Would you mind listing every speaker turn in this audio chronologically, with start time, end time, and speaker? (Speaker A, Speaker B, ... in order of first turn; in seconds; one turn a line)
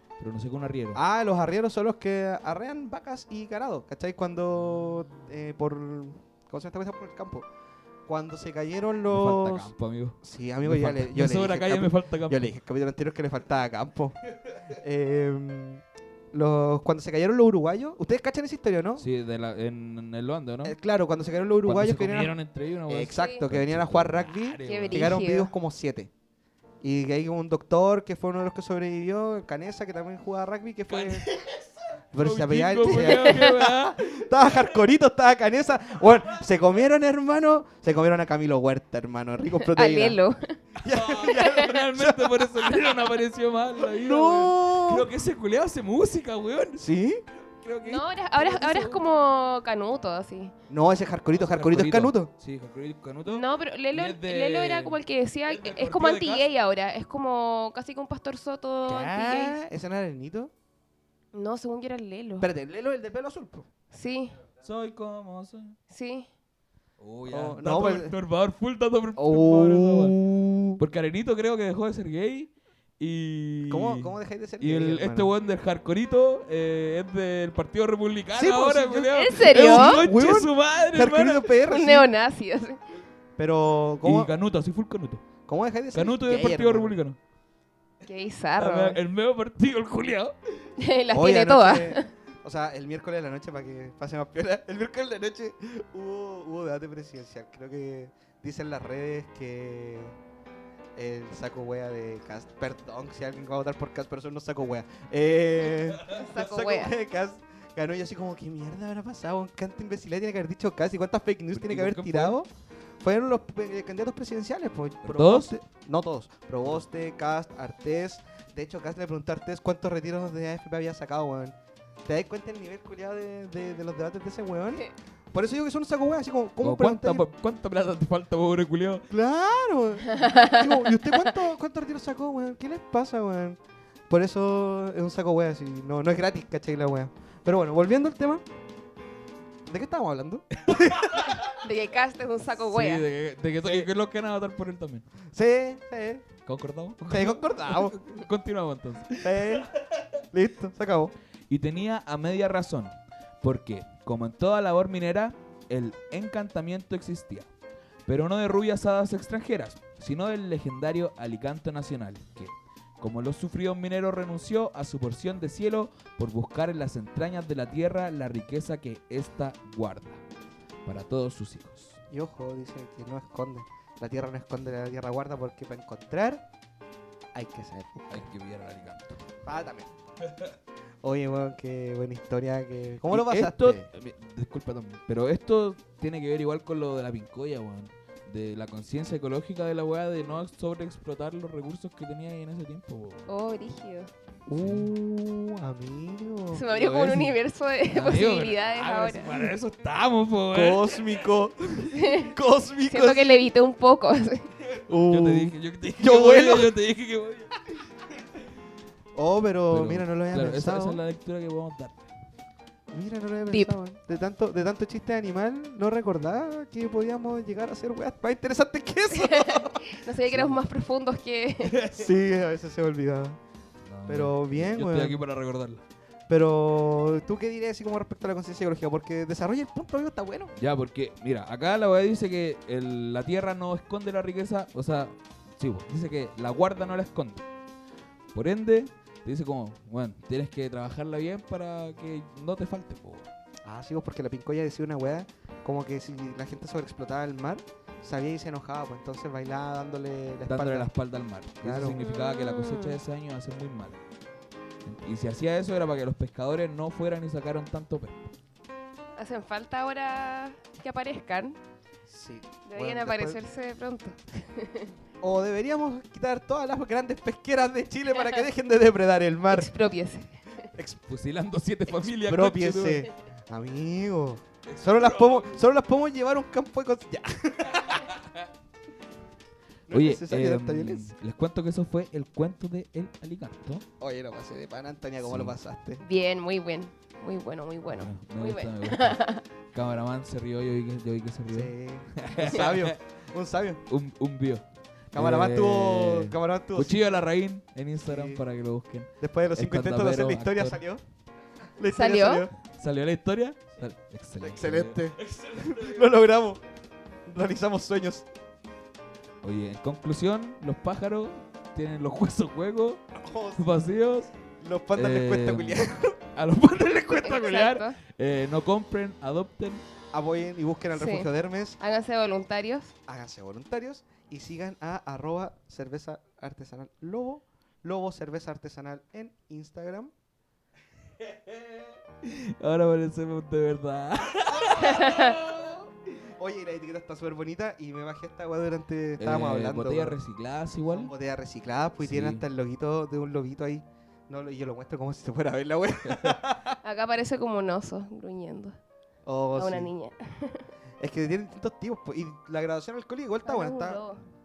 Speaker A: 0.2-1.0
Speaker B: 0.9-7.5
Speaker B: 8.1-9.7
Speaker A: 9.1-12.5
Speaker B: 10.2-14.2
Speaker B: 14.7-19.1
Speaker A: 19.0-20.8
Speaker B: 20.6-22.4
Speaker A: 21.7-25.1
Speaker B: 22.9-26.1
Speaker C: 23.1-23.4
Speaker C: 24.7-25.5
Speaker B: 26.8-31.3
Speaker A: 30.9-34.7
Speaker B: 32.1-40.2
Speaker C: 32.9-33.7
Speaker C: 39.6-40.6
Speaker B: 40.8-42.8
Speaker A: 40.8-46.9
Speaker C: 41.3-41.8
Speaker B: 43.8-45.1
Speaker B: 46.8-47.2
Speaker A: 47.4-49.0
Speaker C: 47.9-50.5
Speaker B: 50.7-52.3
Speaker A: 51.3-56.5
Speaker C: 53.3-59.6
Speaker B: 58.9-60.5
Speaker C: 61.3-62.5
Speaker B: 62.4-63.7
Speaker C: 63.9-64.4
Speaker A: 64.6-65.8
Speaker C: 65.9-66.3
Speaker A: 67.0-70.2
Speaker B: 67.3-68.2
Speaker B: 69.2-70.8
Speaker A: 70.8-81.5
Speaker B: 73.7-75.3
Speaker B: 78.3-82.1
Speaker C: 79.1-80.1
Speaker C: 81.6-82.8
Speaker B: 83.4-84.3
Speaker A: 84.0-85.2
Speaker B: 85.5-87.0
Speaker A: 85.9-87.2
Speaker C: 88.0-89.0
Speaker A: 88.6-90.3
Speaker C: 90.8-92.1
Speaker B: 91.1-100.2
Speaker B: 101.0-112.5
Speaker C: 106.0-106.9
Speaker A: 111.5-112.4
Speaker B: 113.0-121.5
Speaker A: 115.0-115.5
Speaker B: 122.1-127.2
Speaker A: 126.6-129.1
Speaker B: 129.1-138.4
Speaker C: 130.1-131.0
Speaker B: 139.7-141.4
Speaker A: 140.7-141.4
Speaker C: 141.2-143.1
Speaker A: 142.4-145.1
Speaker B: 143.6-143.9
Speaker B: 145.3-146.2
Speaker A: 146.5-149.7
Speaker B: 147.1-148.0
Speaker B: 149.2-149.7
Speaker B: 150.3-151.1
Speaker A: 151.5-157.5
Speaker A: 158.1-170.2
Speaker A: 170.9-172.0
Speaker B: 172.1-176.4
Speaker B: 177.3-178.2
Speaker A: 178.1-179.2
Speaker B: 179.4-179.9
Speaker A: 180.2-180.6
Speaker B: 181.0-183.9
Speaker A: 183.1-193.3
Speaker C: 193.3-194.1
Speaker B: 194.5-196.7
Speaker A: 194.6-194.9
Speaker C: 196.5-199.6
Speaker A: 196.7-197.4
Speaker A: 197.9-201.2
Speaker B: 200.5-203.3
Speaker C: 201.9-202.3
Speaker C: 202.9-204.5
Speaker B: 204.9-206.7
Speaker A: 205.1-207.6
Speaker B: 209.2-211.0
Speaker A: 209.7-212.0
Speaker B: 212.9-220.6
Speaker C: 219.1-221.8
Speaker A: 221.6-222.1
Speaker B: 221.9-223.4
Speaker A: 223.9-225.8
Speaker B: 224.1-225.2
Speaker B: 226.3-230.5
Speaker A: 230.6-237.5
Speaker A: 238.3-243.3
Speaker B: 243.6-250.9
Speaker A: 250.4-254.0
Speaker B: 251.6-252.0
Speaker C: 252.0-253.0
Speaker A: 254.8-258.3
Speaker C: 259.2-261.6
Speaker B: 262.1-263.4
Speaker C: 262.7-264.9
Speaker B: 265.2-269.7
Speaker C: 269.5-270.7
Speaker B: 270.7-271.0
Speaker A: 271.1-273.1
Speaker B: 272.2-278.2
Speaker A: 274.7-275.6
Speaker B: 279.9-281.1
Speaker A: 279.9-283.9
Speaker B: 284.0-286.0
Speaker A: 285.2-285.6
Speaker C: 286.0-289.4
Speaker A: 287.9-289.2
Speaker A: 289.7-293.0
Speaker B: 291.5-293.8
Speaker A: 293.9-300.8
Speaker B: 295.1-297.1
Speaker B: 298.1-298.4
Speaker B: 299.2-301.0
Speaker B: 301.8-302.5
Speaker C: 301.9-302.5
Speaker A: 302.6-305.9
Speaker B: 304.4-306.6
Speaker B: 307.3-308.3
Speaker A: 309.4-313.0
Speaker B: 313.1-313.6
Speaker A: 313.6-314.3
Speaker B: 314.6-316.2
Speaker A: 314.9-319.8
Speaker C: 317.2-318.0
Speaker B: 320.1-321.8
Speaker C: 320.9-322.9
Speaker B: 323.1-330.1
Speaker A: 331.5-335.6
Speaker B: 334.6-340.2
Speaker C: 334.9-335.4
Speaker A: 339.2-341.1
Speaker B: 340.9-346.8
Speaker A: 342.0-342.4
Speaker A: 346.1-346.4
Speaker C: 346.8-348.8
Speaker B: 349.3-349.9
Speaker C: 349.6-350.7
Speaker B: 351.0-354.0
Speaker C: 353.4-354.2